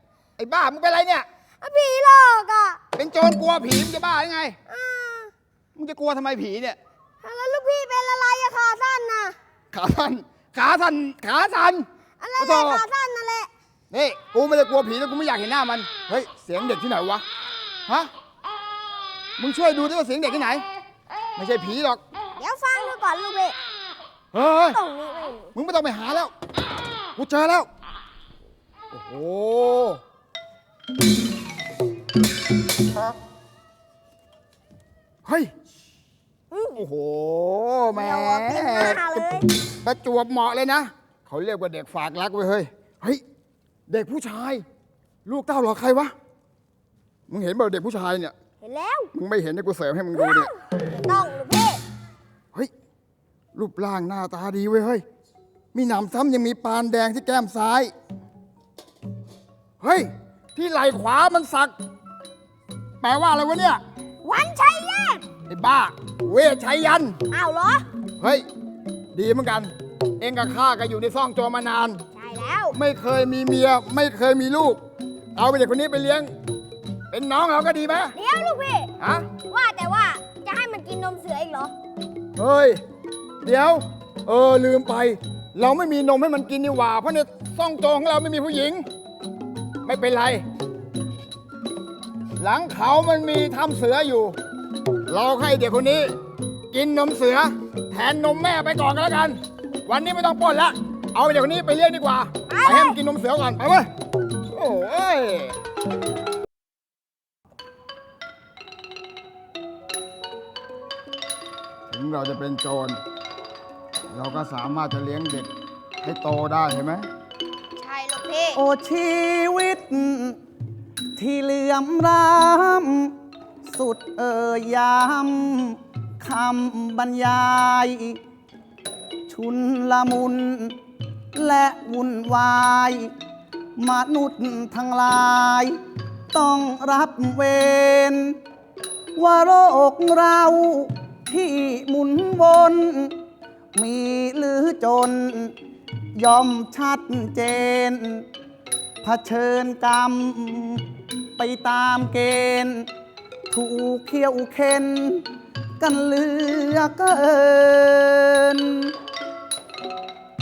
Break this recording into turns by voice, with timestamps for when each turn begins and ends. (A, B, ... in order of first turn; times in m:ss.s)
0:00.4-0:01.2 A
0:01.6-0:02.8 B
0:02.9-0:04.6 A
0:04.7-0:05.3 B
0:05.8-0:06.8 A
0:07.2-0:09.3 B
0:09.7-0:11.9 A
0:12.2-0:13.5 B
0:12.4-0:12.8 A
0:13.9-0:17.2 A
0:19.4-0:20.6 A
0:21.4-0:22.0 A
0:22.4-0:23.6 B
0:24.3-0:24.8 A
0:24.7-0:25.5 B
0:25.5-0:26.3 A
0:27.2-0:27.7 A
0:28.9-0:30.0 A
0:35.2-0:35.5 A
0:36.5-0:36.8 B
0:36.7-0:39.3 A
0:37.9-0:39.5 B
0:39.8-0:43.2 A
0:43.9-0:44.6 A
0:45.2-0:46.1 A
0:47.3-0:48.3 A
0:48.6-0:49.1 B
0:49.1-0:50.5 A
0:50.1-0:51.8 B
0:53.5-0:55.0 A
0:55.7-0:57.9 A
0:59.8-1:01.7 A
1:03.0-1:03.8 A
1:04.2-1:05.2 B
1:05.5-1:07.2 A
1:07.3-1:07.8 B
1:08.2-1:08.4 A
1:09.1-1:12.0 A
1:12.1-1:12.8 B
1:12.7-1:14.8 A
1:15.4-1:16.3 A
1:17.1-1:18.1 A
1:18.1-1:21.7 B
1:19.0-1:19.3 A
1:22.4-1:22.8 A
1:23.4-1:28.8 A
1:29.8-1:30.4 A
1:32.4-1:34.4 A
1:35.1-1:36.2 A
1:36.7-1:43.9 A
1:42.5-1:43.0 B
1:44.5-1:45.6 A
1:51.9-1:53.0 A
1:54.1-1:55.5 A
1:56.0-1:57.1 A
1:57.8-1:58.6 B
1:58.5-2:00.4 C
2:01.2-2:08.2 C
2:09.3-2:10.8 C
2:11.3-2:13.1 C
2:13.8-2:15.8 C
2:16.3-2:18.4 C
2:19.2-2:23.2 C
2:23.8-2:25.5 C
2:26.2-2:28.3 C
2:29.0-2:32.9 C
2:33.5-2:35.2 C
2:35.8-2:38.9 C